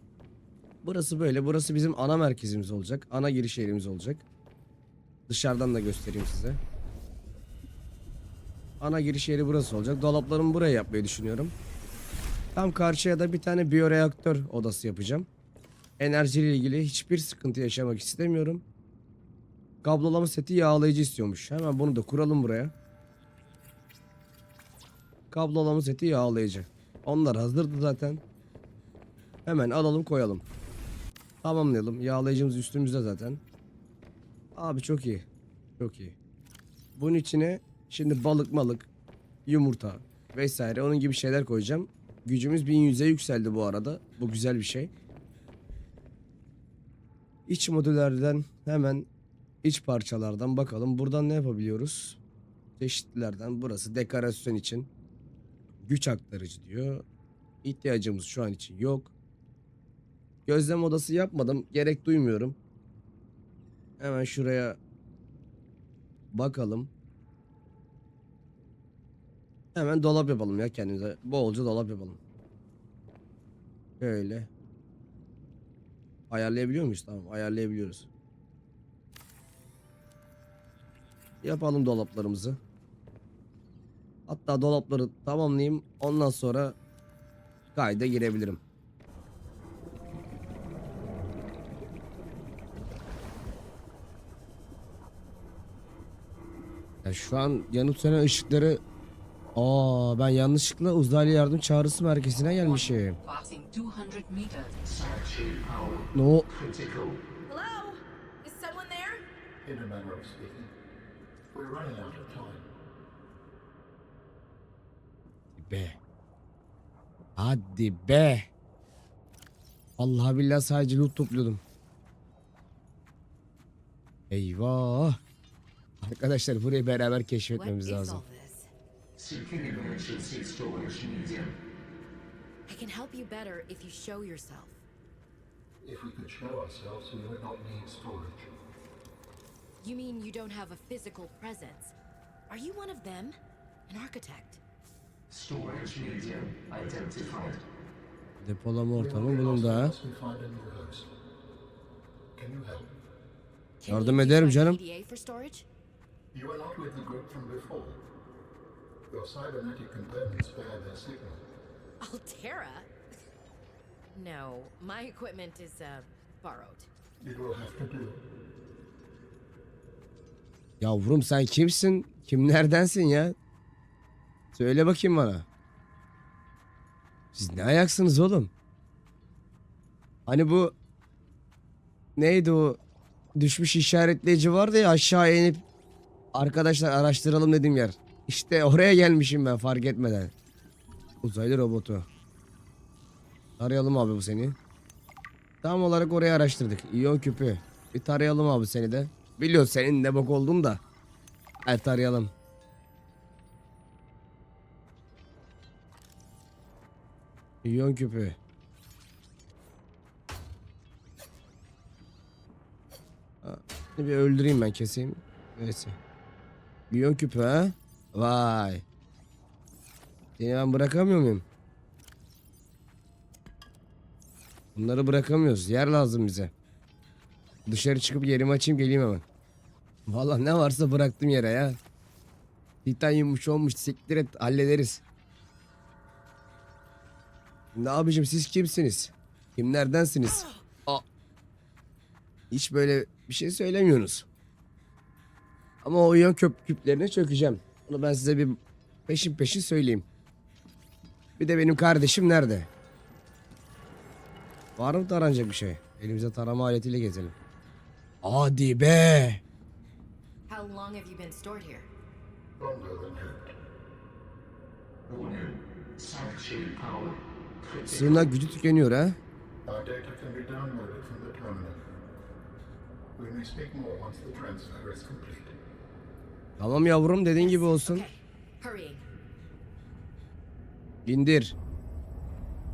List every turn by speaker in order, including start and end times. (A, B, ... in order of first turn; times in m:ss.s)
0:00.8-0:04.2 A
0:05.3-0:06.6 A
0:08.8-0:11.5 A
0:12.6-0:15.3 A
0:16.0-0:18.6 A
0:19.8-0:22.7 A
0:25.3-0:28.2 A
0:29.4-0:30.4 A
0:31.4-0:33.4 A
0:34.6-0:35.3 A
0:35.8-0:36.2 A
0:37.0-0:38.9 A
0:39.5-0:44.9 A
0:47.5-0:49.1 A
0:49.6-0:52.2 A
0:52.8-0:54.9 A
0:55.8-0:57.0 A
0:57.6-0:59.1 A
1:00.5-1:02.6 A
1:04.0-1:04.8 A
1:06.3-1:06.9 A
1:09.8-1:12.2 A
1:14.0-1:14.5 A
1:16.3-1:18.1 A
1:21.4-1:22.6 A
1:24.3-1:26.8 A
1:27.8-1:28.6 A
1:37.0-1:38.8 A
1:39.6-1:43.2 A
1:42.6-1:44.8 B
1:44.8-1:47.2 C
1:46.1-1:46.5 A
1:47.5-1:49.2 D
1:49.6-1:50.8 E
1:51.5-1:52.7 E
1:55.6-1:56.0 A
1:57.4-1:58.5 A
2:00.0-2:01.6 A
2:04.3-2:05.2 A
2:06.0-2:08.2 A
2:07.5-2:08.7 D
2:09.2-2:11.6 C
2:12.7-2:14.8 D
2:15.8-2:18.5 E
2:19.8-2:21.9 D
2:22.5-2:23.4 D
2:23.9-2:24.6 D
2:25.3-2:27.6 C
2:28.4-2:29.9 A
2:28.9-2:31.1 E
2:32.4-2:32.9 E
2:33.8-2:35.7 D
2:33.9-2:34.8 A
2:36.3-2:38.0 E
2:39.1-2:41.5 E
2:42.0-2:42.9 D
2:44.1-2:46.9 D
2:47.2-2:48.2 E
2:50.8-2:53.4 A
2:54.5-2:55.5 A
2:57.3-2:58.5 A
3:00.3-3:00.8 A
3:02.2-3:02.8 A
3:03.4-3:05.6 A
3:06.3-3:10.3 A
3:11.2-3:12.1 A
3:13.6-3:14.6 A
3:15.6-3:20.8 A
3:21.6-3:22.3 A
3:27.6-3:28.4 A
3:33.4-3:36.0 A
3:36.9-3:38.8 A
3:40.4-3:41.4 A
3:44.8-3:46.5 A
3:47.7-3:49.2 A
3:50.1-3:51.8 A
3:52.8-3:55.0 A
3:57.8-4:01.0 A
4:00.3-4:00.7 D
4:02.5-4:04.3 A
4:05.8-4:10.1 A
4:11.4-4:12.7 A
4:14.8-4:17.4 A
4:18.2-4:19.4 A
4:20.5-4:21.9 D
4:22.6-4:23.6 E
4:25.1-4:28.3 C
4:27.9-4:29.2 A
4:29.7-4:31.8 E
4:33.2-4:35.6 E
4:36.6-4:38.0 A
4:37.4-4:39.0 D
4:41.0-4:41.6 A